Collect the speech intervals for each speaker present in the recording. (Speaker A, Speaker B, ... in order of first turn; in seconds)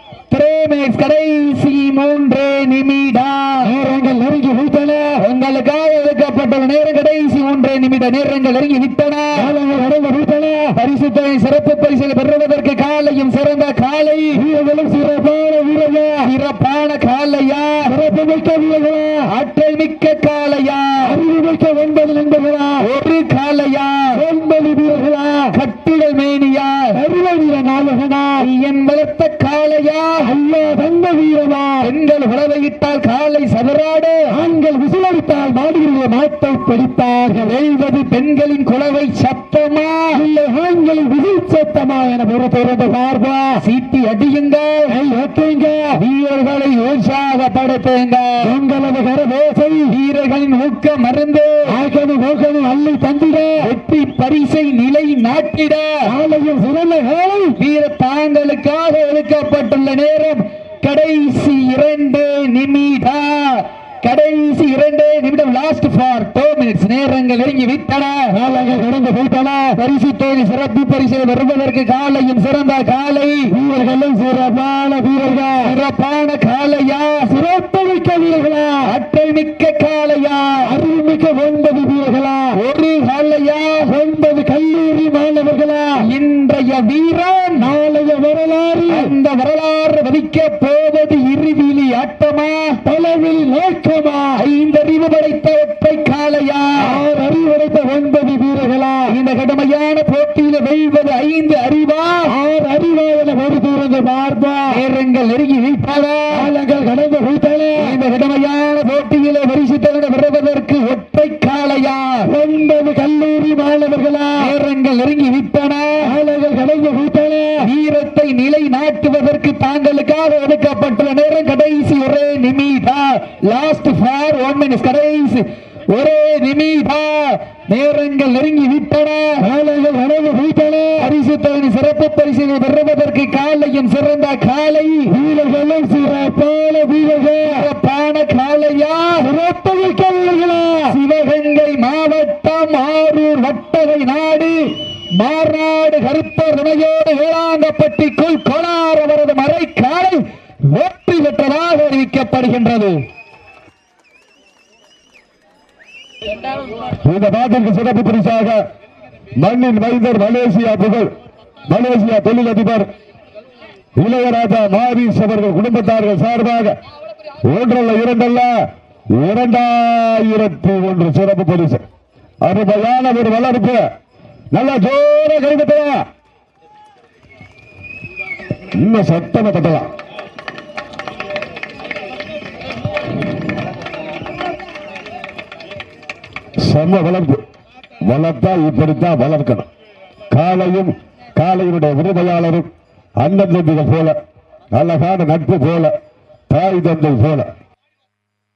Speaker A: 0.3-3.7, 5.2-9.5, 10.7-14.4, 16.2-17.9, 19.3-21.2, 22.8-24.2, 25.5-27.0, 28.4-30.3, 31.8-34.3, 37.4-40.2, 43.6-45.0, 45.9-48.5, 49.9-51.8, 53.6-56.1, 57.5-68.3, 69.8-73.5, 75.6-77.3, 78.8-80.7, 82.5-83.9, 86.0-87.7, 88.9-92.8, 94.3-97.0, 99.1-102.3, 104.7-106.5, 107.8-112.3, 114.4-116.1, 117.6-129.4, 131.0-135.1, 137.4-139.3, 140.9-153.0
Speaker B: 3.6-5.2, 9.3-10.7, 14.3-16.3, 17.8-19.3, 21.0-22.9, 24.1-25.6, 26.9-28.5, 30.2-31.9, 34.3-37.6, 40.1-43.6, 44.9-46.0, 48.4-49.9, 51.7-53.7, 56.0-57.6, 68.3-69.8, 73.5-75.7, 77.2-78.9, 80.6-82.6, 83.8-86.1, 87.5-89.1, 92.8-94.4, 96.8-99.2, 102.2-104.8, 106.3-108.0, 112.2-114.5, 116.0-117.7, 129.4-131.1, 135.1-137.7, 139.2-141.0
Speaker C: 157.0-158.6, 159.4-161.1, 161.7-162.9, 164.0-166.7, 167.4-168.5, 169.1-171.8, 172.4-173.8, 174.5-176.0, 178.8-179.9, 186.6-187.4, 188.0-189.7, 190.3-192.7, 193.2-194.2, 194.7-195.9, 196.5-197.5